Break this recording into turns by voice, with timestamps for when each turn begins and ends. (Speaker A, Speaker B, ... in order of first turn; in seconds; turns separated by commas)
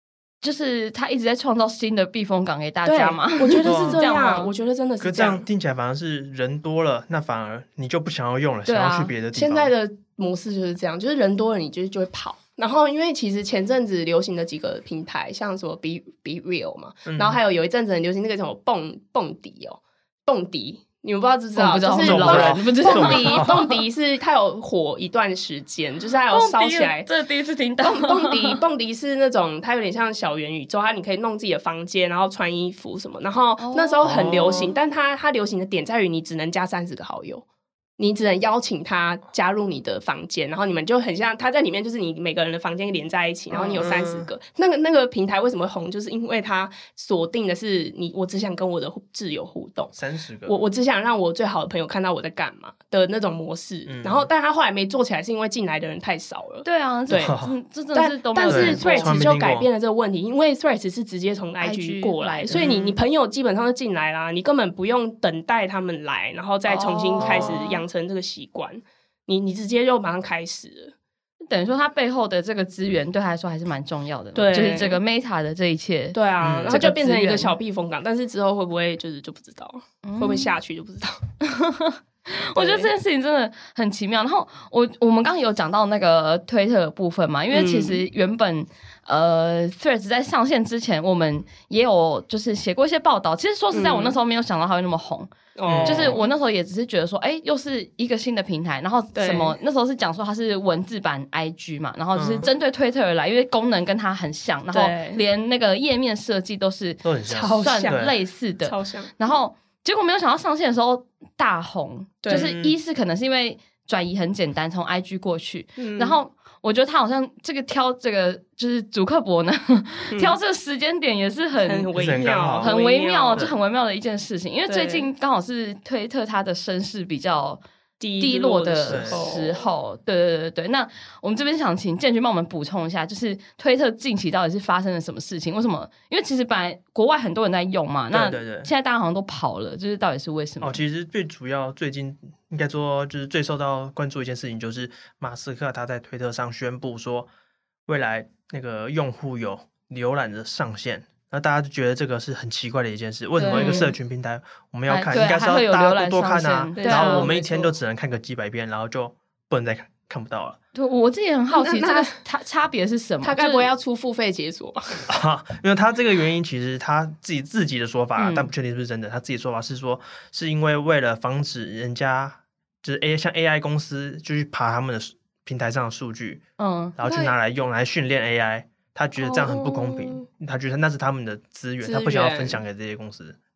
Speaker A: 0.4-4.5, Speaker B: 2.9-5.4, Speaker C: 3.6-4.0, Speaker C: 5.0-9.7, Speaker A: 8.7-9.1, Speaker B: 9.3-27.1, Speaker C: 17.1-17.4, Speaker A: 21.6-23.7, Speaker C: 22.0-23.6, Speaker A: 26.3-28.6, Speaker B: 27.8-37.4, Speaker A: 33.6-34.6, Speaker C: 34.0-34.7, Speaker B: 38.0-49.9, Speaker A: 43.5-43.9, Speaker C: 43.8-44.3, Speaker C: 49.9-50.5, Speaker B: 50.5-57.3, Speaker C: 53.9-54.3, Speaker A: 56.6-59.3, Speaker C: 57.1-57.5, Speaker B: 57.9-70.9, Speaker C: 58.5-59.7, Speaker A: 61.6-62.9, Speaker A: 66.7-67.8, Speaker C: 67.2-67.6, Speaker A: 71.5-77.5, Speaker B: 74.3-75.0, Speaker B: 76.1-81.2, Speaker C: 76.4-76.8, Speaker A: 80.0-80.5, Speaker A: 81.4-95.3, Speaker B: 82.5-82.9, Speaker B: 87.5-88.0, Speaker B: 93.7-94.2, Speaker B: 95.5-96.2, Speaker C: 95.7-96.2, Speaker A: 95.8-121.9, Speaker B: 99.1-99.5, Speaker C: 102.1-102.5, Speaker B: 104.7-105.2, Speaker C: 107.0-108.1, Speaker B: 107.3-108.1, Speaker B: 108.6-109.1, Speaker B: 112.2-112.5, Speaker C: 112.3-112.8, Speaker B: 115.8-116.2, Speaker B: 121.6-123.5, Speaker C: 121.9-122.7, Speaker A: 122.6-127.6, Speaker B: 124.7-125.1, Speaker B: 128.0-129.7, Speaker A: 128.2-140.8, Speaker C: 128.9-129.2, Speaker C: 138.1-138.7, Speaker C: 140.6-147.3, Speaker C: 147.9-160.6, Speaker A: 153.4-153.9, Speaker B: 153.5-153.9, Speaker A: 154.9-157.3, Speaker B: 156.8-157.7, Speaker A: 160.7-163.7, Speaker B: 161.5-162.2, Speaker B: 163.2-165.0, Speaker C: 165.1-176.4, Speaker A: 168.2-168.5, Speaker A: 176.6-177.0, Speaker C: 177.0-183.4, Speaker B: 177.0-177.3, Speaker B: 179.2-180.2, Speaker B: 181.8-182.6